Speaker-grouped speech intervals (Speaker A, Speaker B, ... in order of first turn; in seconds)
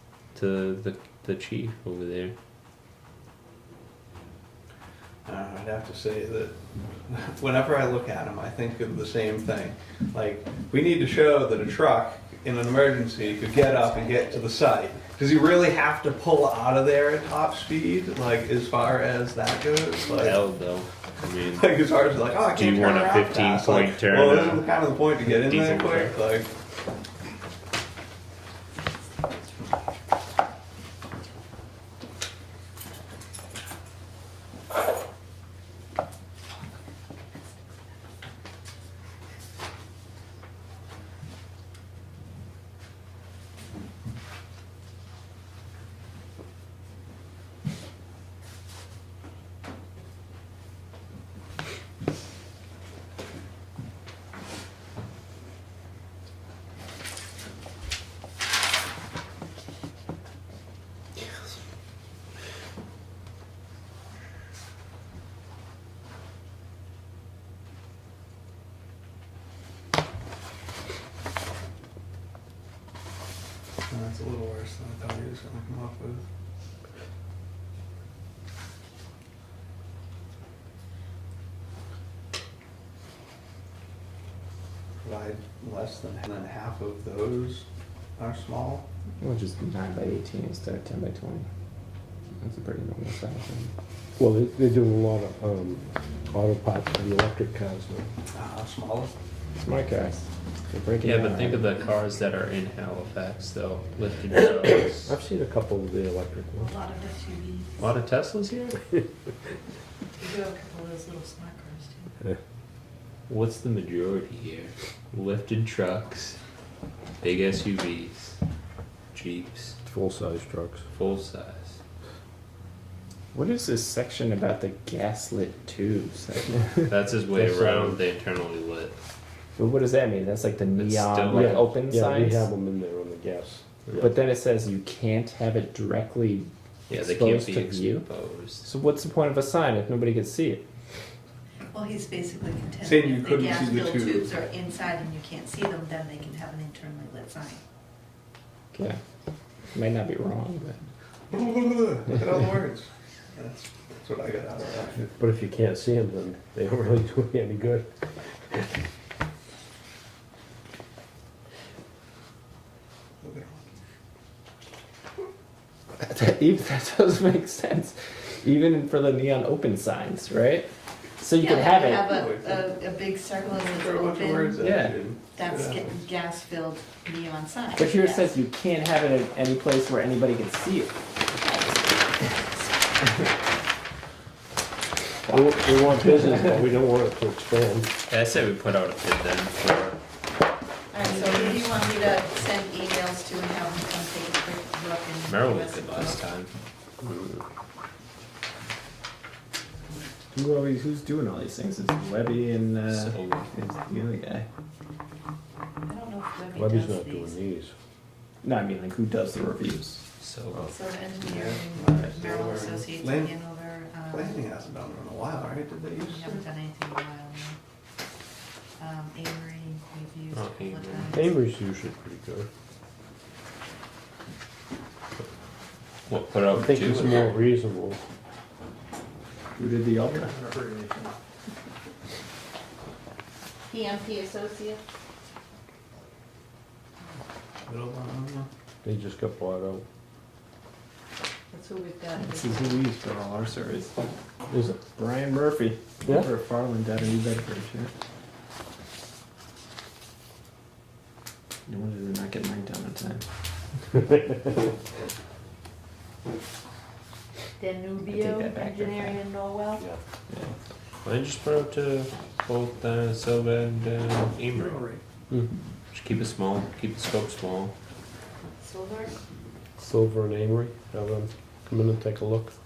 Speaker A: 0.3-2.3, 20.1-21.8, 22.5-24.7, 25.2-26.1, 101.0-105.2, 107.8-108.8, 113.3-116.4, 117.2-118.4, 119.1-119.8, 120.9-121.8, 126.9-128.9, 130.7-131.7, 136.9-138.7, 188.1-190.0, 195.3-196.5, 197.0-197.4, 202.9-203.5, 210.2-210.7, 220.3-221.2, 226.1-227.3, 261.0-264.9, 265.9-267.7
Speaker B: 5.2-6.5, 7.1-20.4, 21.5-26.5, 73.9-76.2, 85.0-87.6, 88.2-88.8, 98.3-99.1, 142.8-144.3, 151.3-155.1, 163.2-163.6, 172.1-172.8, 173.4-176.0, 211.2-213.5, 214.1-216.4, 230.5-230.9, 237.6-238.5, 264.6-265.0
Speaker C: 13.2-14.6, 106.6-107.8, 110.2-112.1, 141.7-147.6, 171.3-178.3, 190.9-196.2, 205.8-207.4, 210.7-214.3, 216.0-217.6, 218.8-221.4, 233.7-234.8, 241.5-242.8, 257.6-259.9, 268.6-269.1
Speaker D: 89.2-91.5, 92.4-93.7, 99.6-101.7, 123.3-126.9, 129.6-132.5, 134.0-138.1, 138.6-140.6, 148.7-149.0, 149.7-150.9, 166.0-170.7, 171.2-172.1, 174.6-174.9, 177.8-183.3, 200.3-204.5, 208.4-210.0, 229.6-230.5, 242.2-244.0, 244.9-247.9, 251.7-253.2, 258.1-259.3, 260.3-260.5
Speaker E: 94.2-98.1, 104.6-106.7, 119.9-120.8, 127.3-128.0, 131.3-133.9, 155.1-158.7, 185.3-187.9, 206.5-207.7, 221.1-222.5, 226.5-228.0, 238.8-239.8, 244.5-244.8, 269.8-272.5